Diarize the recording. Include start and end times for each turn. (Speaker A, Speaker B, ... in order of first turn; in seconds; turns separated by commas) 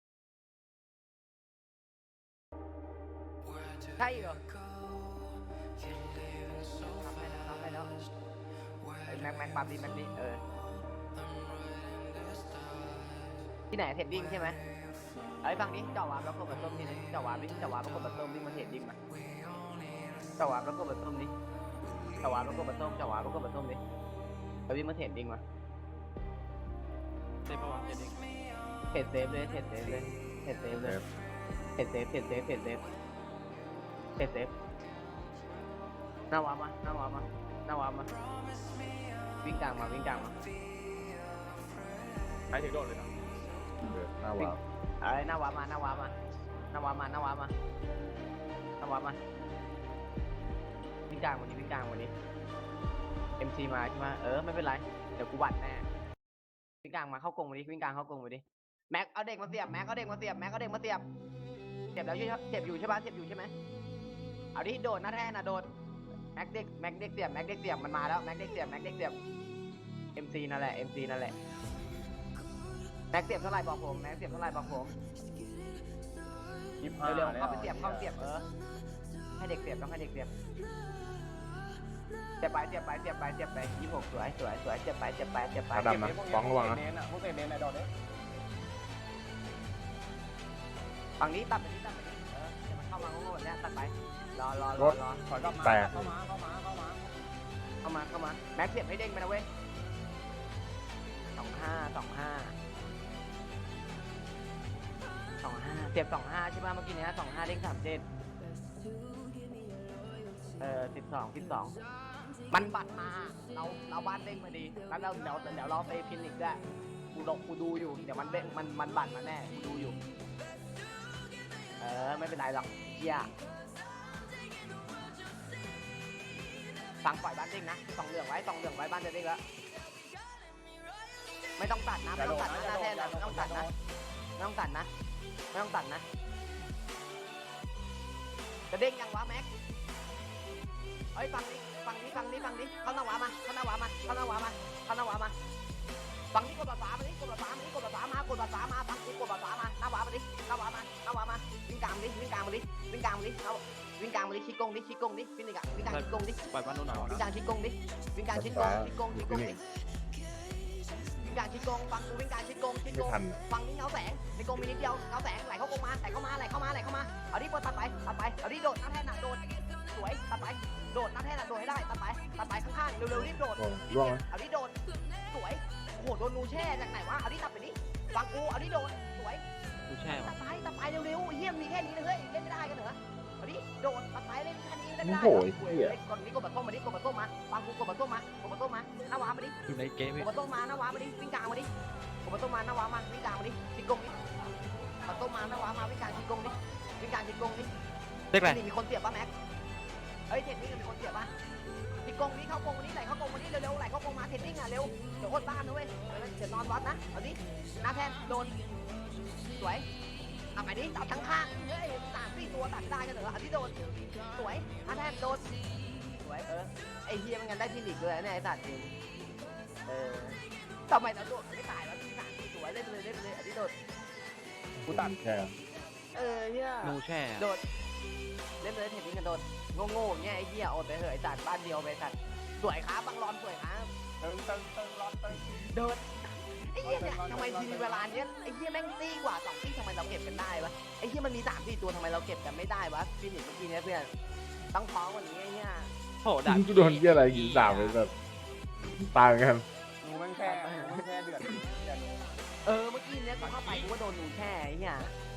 Speaker A: 4.0-4.4, Speaker A: 6.8-7.9, Speaker A: 9.0-10.4, Speaker A: 13.7-14.6, Speaker A: 15.4-18.9, Speaker A: 20.4-21.3, Speaker A: 22.2-23.8, Speaker A: 24.7-25.4, Speaker B: 27.4-28.3, Speaker A: 28.9-31.0, Speaker C: 30.8-31.1, Speaker A: 31.8-32.8, Speaker A: 34.2-34.5, Speaker A: 36.3-38.1, Speaker A: 39.4-40.4, Speaker D: 42.5-43.1, Speaker C: 43.8-44.6, Speaker A: 44.4-46.1, Speaker A: 46.7-47.5, Speaker A: 48.8-49.2, Speaker A: 51.1-52.1, Speaker A: 53.4-55.8, Speaker A: 56.8-61.0, Speaker A: 62.0-63.5, Speaker A: 64.5-65.7, Speaker A: 66.3-69.2, Speaker A: 70.2-71.3, Speaker A: 73.1-74.9, Speaker D: 76.8-78.1, Speaker A: 77.0-78.5, Speaker A: 79.4-80.3, Speaker A: 82.4-86.0, Speaker C: 85.7-86.8, Speaker D: 85.8-87.9, Speaker A: 91.2-95.2, Speaker D: 95.2-97.1, Speaker C: 95.6-96.2, Speaker A: 97.8-99.5, Speaker A: 101.3-102.5, Speaker A: 105.4-108.0, Speaker A: 110.6-111.8, Speaker A: 112.5-116.6, Speaker A: 117.1-120.0, Speaker A: 121.8-123.3, Speaker A: 127.0-129.4, Speaker A: 131.6-133.7, Speaker D: 132.1-133.7, Speaker A: 134.4-134.9, Speaker A: 135.5-136.0, Speaker A: 138.7-139.5, Speaker A: 141.1-145.3, Speaker A: 146.3-156.4, Speaker B: 155.8-157.2, Speaker D: 156.9-157.2, Speaker A: 157.0-159.6, Speaker C: 158.3-159.6, Speaker A: 161.2-174.8, Speaker C: 162.9-163.4, Speaker C: 173.4-174.2, Speaker A: 175.3-179.4, Speaker B: 179.9-180.3, Speaker A: 180.1-189.5, Speaker C: 185.0-186.0, Speaker B: 189.7-190.3, Speaker A: 190.2-191.7, Speaker A: 192.2-194.1, Speaker A: 195.1-197.7, Speaker B: 198.3-198.6, Speaker A: 198.4-199.3, Speaker A: 200.3-201.3, Speaker A: 202.0-208.5, Speaker A: 209.6-209.8, Speaker A: 210.6-213.8, Speaker A: 214.3-215.4, Speaker A: 216.2-218.9, Speaker A: 219.9-220.4, Speaker A: 220.9-223.7, Speaker C: 224.8-225.6, Speaker D: 224.9-225.1, Speaker A: 226.1-227.6, Speaker B: 226.8-227.5, Speaker A: 228.6-233.9, Speaker D: 234.2-235.6, Speaker A: 235.6-244.1, Speaker D: 236.8-238.1, Speaker A: 244.7-245.9, Speaker B: 246.2-248.0, Speaker C: 246.4-248.1, Speaker C: 249.0-249.6, Speaker D: 250.0-252.4, Speaker A: 250.4-251.5, Speaker A: 252.7-255.1, Speaker D: 253.4-253.9